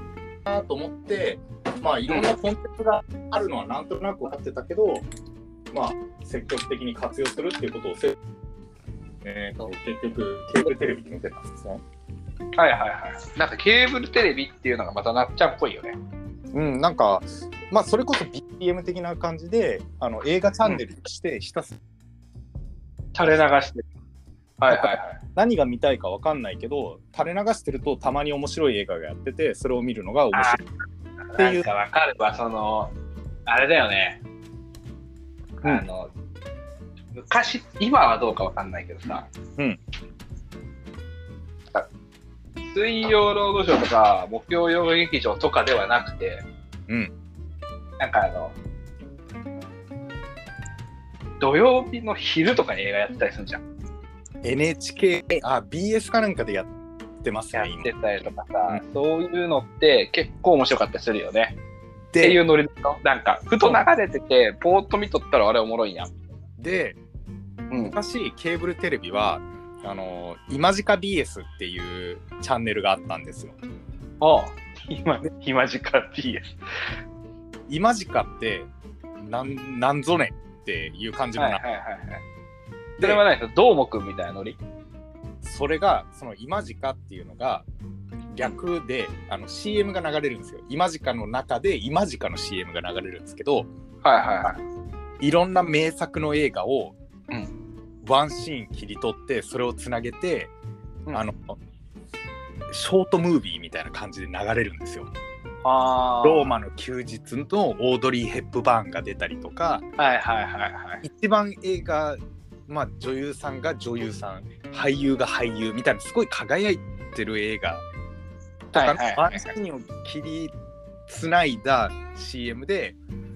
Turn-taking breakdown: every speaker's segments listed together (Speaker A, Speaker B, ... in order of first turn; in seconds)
Speaker A: 0.5-5.1, 5.7-8.2, 9.2-11.8, 16.5-21.8, 24.7-30.6, 31.4-31.7, 46.9-47.1, 54.4-56.7, 57.2-57.9, 62.1-62.4, 66.6-67.0, 67.8-73.5, 77.7-81.6, 85.4-87.7, 88.3-93.7, 95.2-97.0, 98.0-100.5, 101.1-101.6, 102.7-105.1, 106.2-109.8, 111.0-117.8, 118.8-120.5, 121.1-123.0
Speaker B: 12.6-16.0, 23.1-23.9, 24.6-25.2, 30.3-30.6, 31.3-32.9, 33.5-34.2, 35.6-36.1, 37.1-39.3, 42.6-46.5, 48.0-48.5, 51.4-53.6, 57.5-61.6, 62.2-66.2, 67.7-68.0, 74.2-76.5, 81.4-82.2, 83.0-84.6, 94.0-94.6, 105.6-106.5, 110.0-111.0, 118.7-119.5